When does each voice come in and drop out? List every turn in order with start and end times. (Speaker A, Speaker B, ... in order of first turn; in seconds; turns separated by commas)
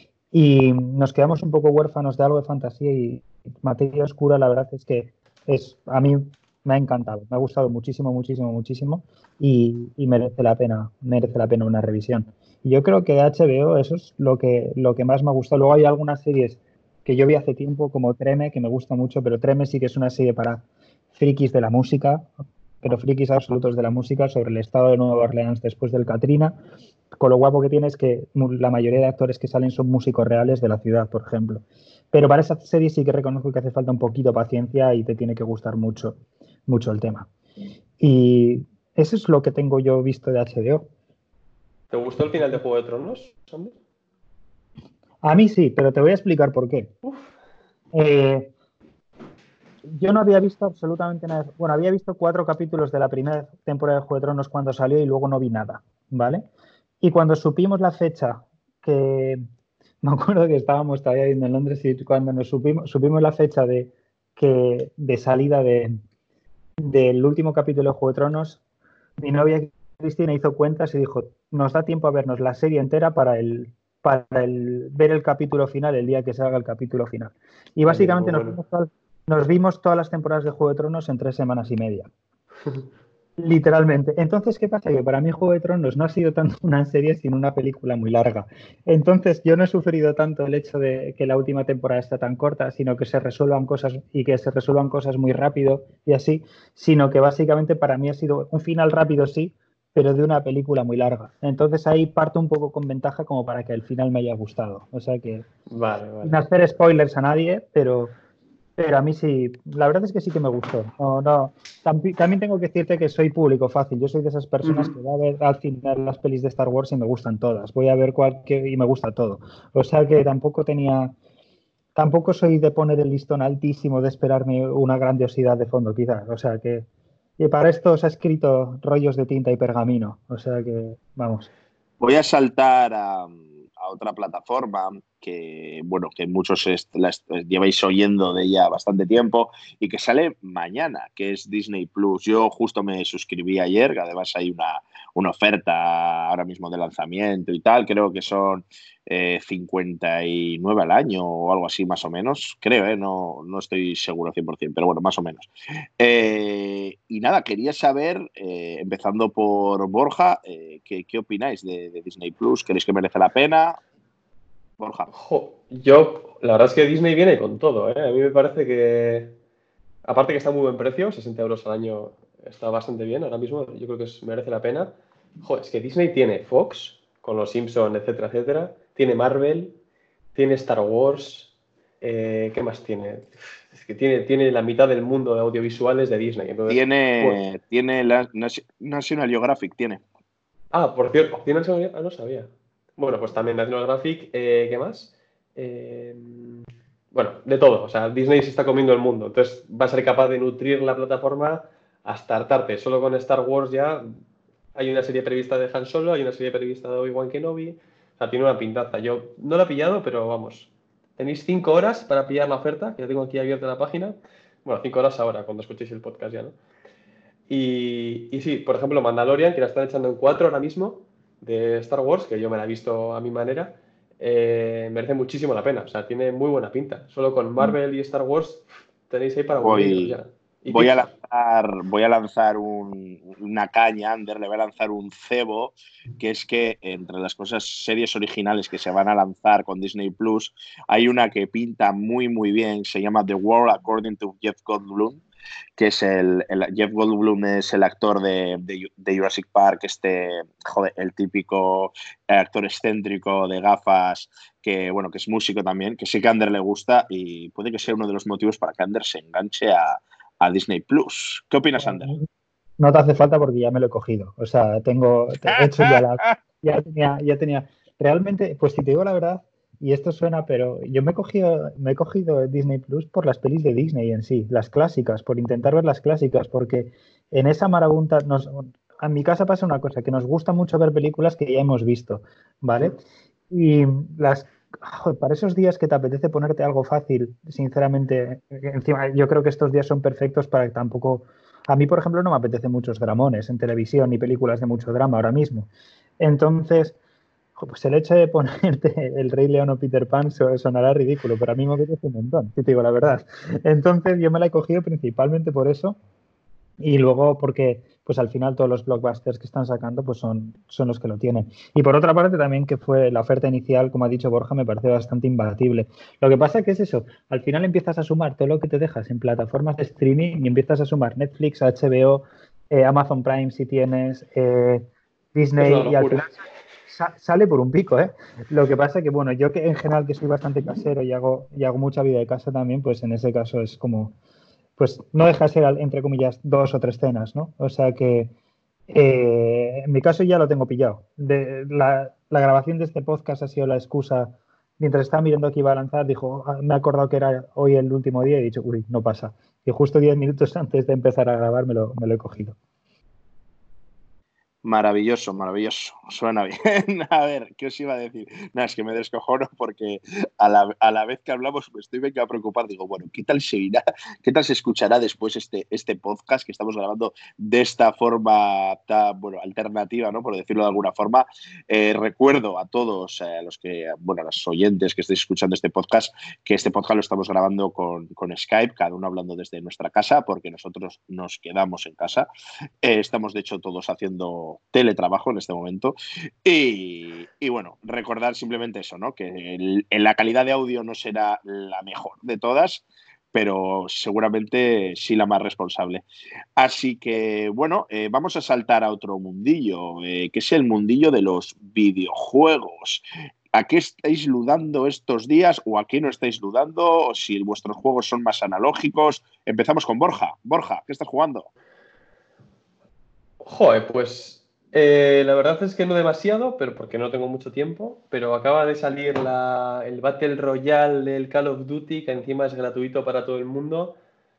Speaker A: 0.3-22.3, Speaker A: 22.8-26.6, Speaker A: 27.1-37.3, Speaker A: 38.0-40.9, Speaker B: 41.9-43.8, Speaker A: 45.2-46.9, Speaker B: 47.0-47.3, Speaker A: 47.9-48.5, Speaker A: 49.9-56.5, Speaker A: 57.0-59.4, Speaker A: 60.0-66.0, Speaker A: 66.8-68.6, Speaker A: 69.2-82.1, Speaker B: 77.8-78.6, Speaker A: 83.4-105.5, Speaker B: 105.7-106.3, Speaker A: 106.2-108.2, Speaker A: 108.8-121.2, Speaker B: 114.6-114.9, Speaker A: 121.9-126.9, Speaker A: 127.4-131.5, Speaker C: 132.0-163.8, Speaker C: 164.8-165.1, Speaker B: 165.1-169.3, Speaker B: 170.0-179.8, Speaker B: 180.3-187.4, Speaker C: 186.7-190.0, Speaker B: 190.7-204.1, Speaker B: 204.7-216.6, Speaker B: 217.5-231.0, Speaker C: 229.6-230.2, Speaker C: 230.7-245.2, Speaker C: 245.8-262.1, Speaker A: 261.8-262.3, Speaker A: 262.8-283.0, Speaker C: 265.5-266.3, Speaker A: 283.5-296.9, Speaker A: 297.6-306.0, Speaker A: 306.8-334.1, Speaker B: 325.6-326.2, Speaker A: 334.8-338.3, Speaker A: 338.9-352.6, Speaker C: 354.6-382.3, Speaker C: 382.8-396.0, Speaker C: 396.6-411.5, Speaker B: 413.4-423.9